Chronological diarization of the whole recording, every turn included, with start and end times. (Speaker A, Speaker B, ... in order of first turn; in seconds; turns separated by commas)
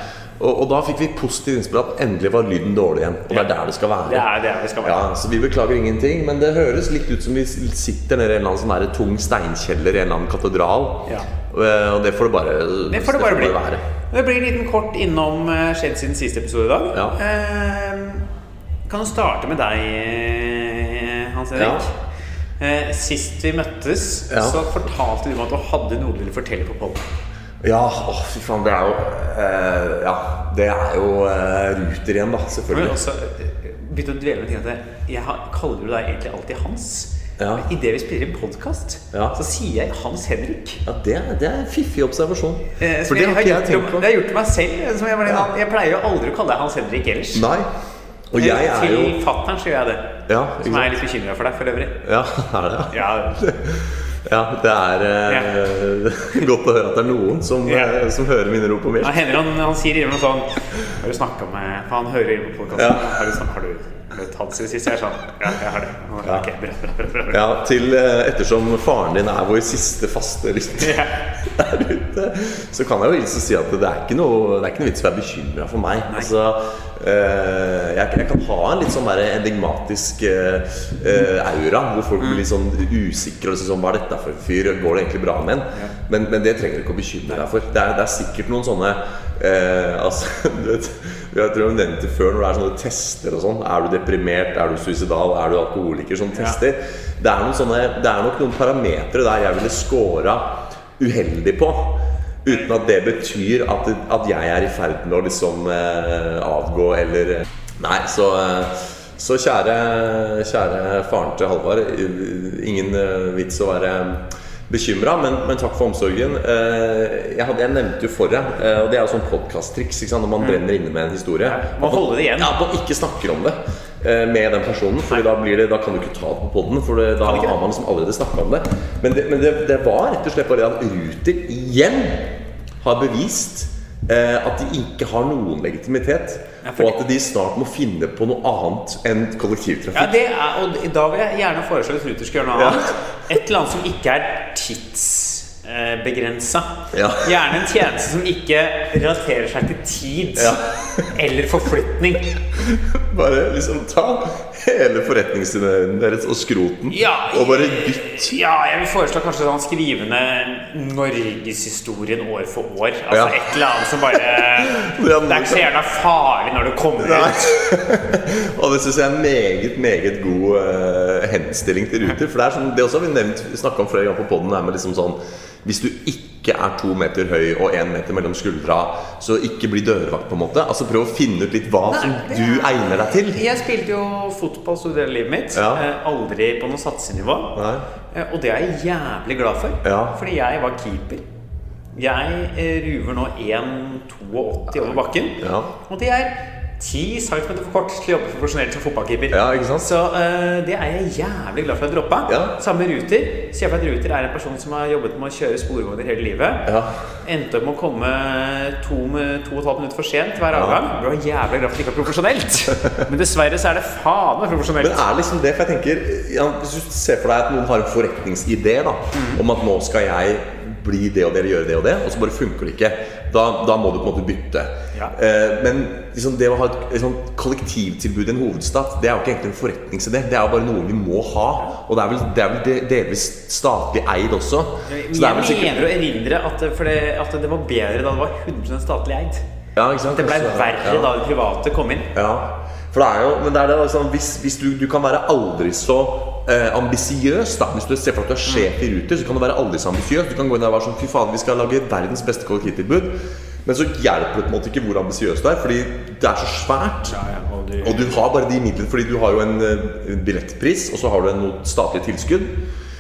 Speaker A: 0.4-4.3, Speaker B: 4.0-5.0, Speaker A: 4.8-13.8, Speaker B: 12.9-18.2, Speaker B: 18.9-21.9, Speaker A: 21.6-21.9, Speaker B: 22.6-27.1, Speaker A: 24.3-24.6, Speaker A: 27.6-33.0, Speaker B: 32.7-40.8, Speaker A: 37.4-37.7, Speaker A: 40.9-44.1, Speaker B: 42.8-47.5, Speaker A: 47.3-47.7, Speaker A: 48.3-49.2, Speaker B: 48.4-52.0, Speaker A: 50.3-51.0, Speaker A: 52.0-59.4, Speaker B: 52.9-53.4, Speaker B: 55.3-55.5, Speaker B: 57.7-57.9, Speaker B: 59.0-67.4, Speaker A: 62.7-63.3, Speaker A: 67.3-140.2, Speaker B: 70.8-71.2, Speaker B: 96.3-96.6, Speaker B: 121.4-122.5, Speaker B: 127.2-127.6, Speaker B: 136.6-137.0, Speaker B: 139.9-152.3, Speaker A: 142.6-142.9, Speaker A: 146.9-147.4, Speaker A: 150.4-151.2, Speaker A: 152.5-158.3, Speaker B: 156.9-167.6, Speaker A: 163.1-163.4, Speaker A: 164.1-165.7, Speaker A: 167.0-183.4, Speaker B: 181.9-187.6, Speaker A: 185.5-185.8, Speaker A: 187.6-187.8, Speaker B: 188.1-191.2, Speaker A: 189.8-190.2, Speaker B: 191.9-206.7, Speaker A: 195.4-195.7, Speaker A: 199.3-199.9, Speaker A: 202.3-202.5, Speaker A: 206.7-207.0, Speaker B: 207.2-215.0, Speaker A: 210.5-210.8, Speaker A: 214.8-235.8, Speaker B: 219.1-219.4, Speaker B: 234.9-239.4, Speaker A: 239.8-241.1, Speaker B: 240.1-242.1, Speaker A: 242.1-257.1, Speaker B: 257.1-258.1, Speaker A: 257.8-262.6